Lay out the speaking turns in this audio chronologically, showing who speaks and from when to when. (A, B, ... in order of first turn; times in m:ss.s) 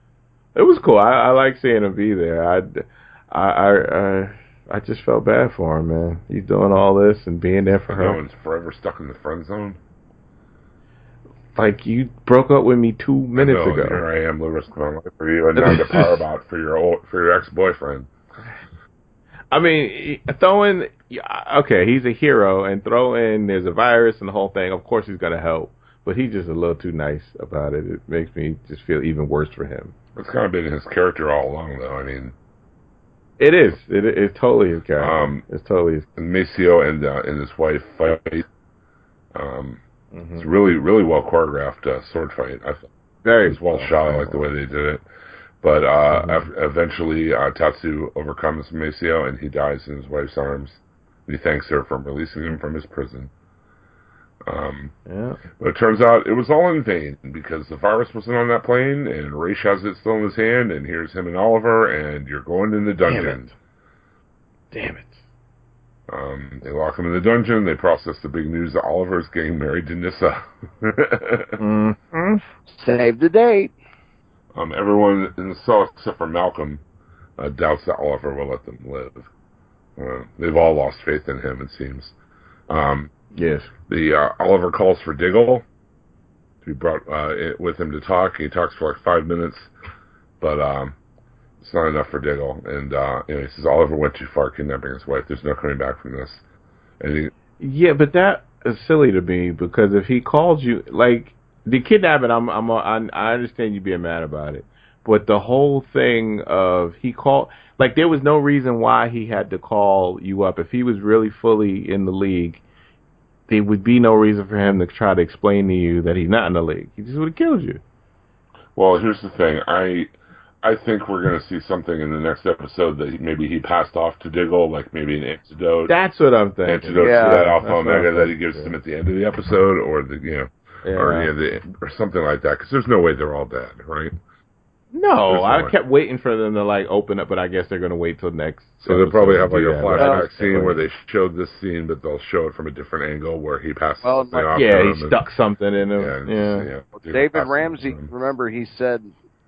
0:00.6-0:08.2 A
0:07.9-0:09.8 B
0:11.6-0:14.0 A
0:13.4-0:18.1 B
0:15.6-0:16.2 A
0:19.5-0:29.9 A
0:30.2-0:32.4 B
0:33.4-0:36.1 A
0:35.0-0:35.4 B
0:36.2-0:38.5 B
0:39.3-0:39.8 B
0:40.1-0:40.5 A
0:40.4-0:42.9 B
0:43.2-0:44.5 A
0:43.4-0:45.0 B
0:45.6-0:53.3 B
0:46.1-0:46.4 A
0:54.5-0:54.9 B
0:55.1-0:55.4 A
0:55.6-1:03.5 B
1:03.1-1:03.5 A
1:04.7-1:05.2 A
1:06.1-1:11.6 B
1:11.6-1:12.4 A
1:12.7-1:13.7 C
1:14.6-1:16.8 B
1:17.4-1:19.3 B
1:20.0-1:22.1 B
1:22.7-1:23.1 B
1:23.3-1:23.7 A
1:23.9-1:25.6 B
1:26.6-1:29.7 B
1:30.4-1:31.0 B
1:31.6-1:36.4 B
1:37.0-1:37.3 B
1:37.6-1:52.6 A
1:53.5-1:57.8 A
1:58.8-2:06.0 B
2:05.9-2:08.7 A
2:06.7-2:14.1 B
2:07.0-2:07.4 C
2:10.8-2:11.3 A
2:14.9-2:20.8 A
2:15.3-2:15.7 B
2:18.8-2:25.2 B
2:20.0-2:20.2 C
2:24.0-2:24.5 C
2:24.5-2:26.7 A
2:26.0-2:28.1 B
2:27.0-2:29.1 C